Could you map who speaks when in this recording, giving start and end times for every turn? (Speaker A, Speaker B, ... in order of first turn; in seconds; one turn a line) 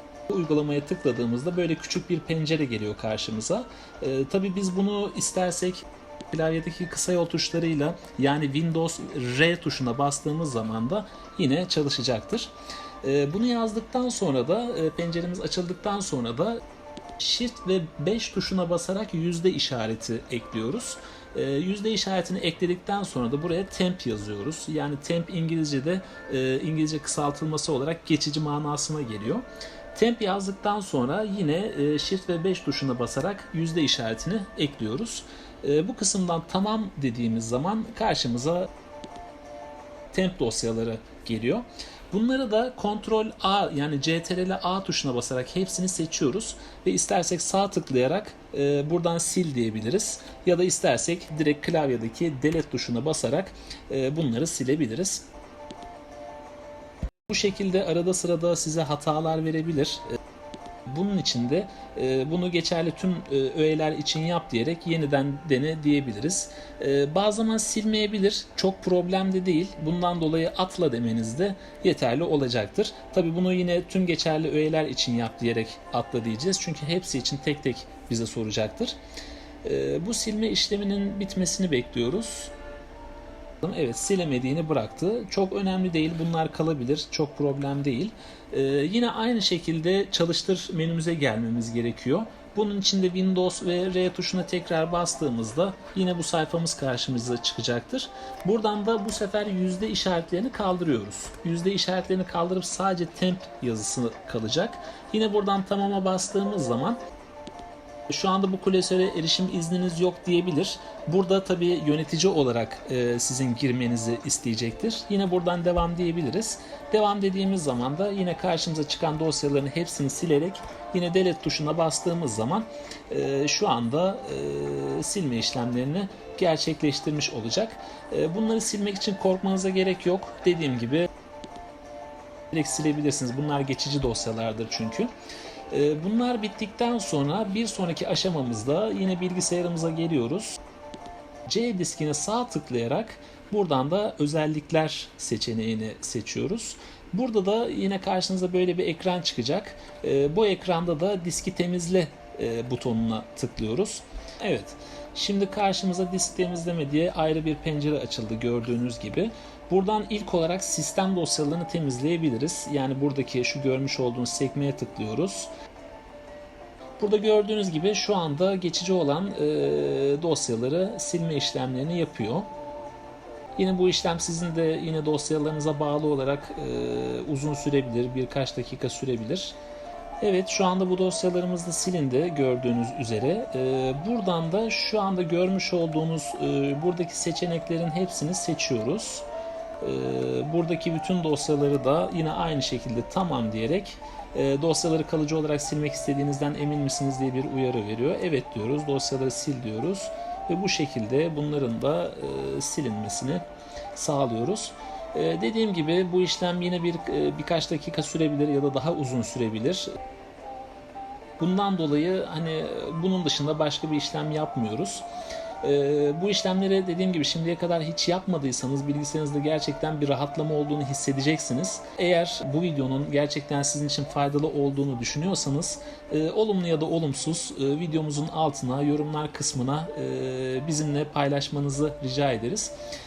Speaker A: 0.3-16.6
Speaker A: 17.2-38.7
Speaker A: 40.1-55.2
Speaker A: 57.3-60.1
Speaker A: 60.9-79.0
Speaker A: 79.6-82.5
Speaker A: 83.6-107.0
Speaker A: 108.1-131.1
Speaker A: 132.5-135.1
Speaker A: 135.7-140.6
Speaker A: 141.4-165.5
Speaker A: 167.0-172.5
Speaker A: 173.6-179.6
Speaker A: 180.2-189.3
Speaker A: 189.8-203.4
Speaker A: 203.9-209.9
Speaker A: 211.4-215.1
Speaker A: 215.6-232.7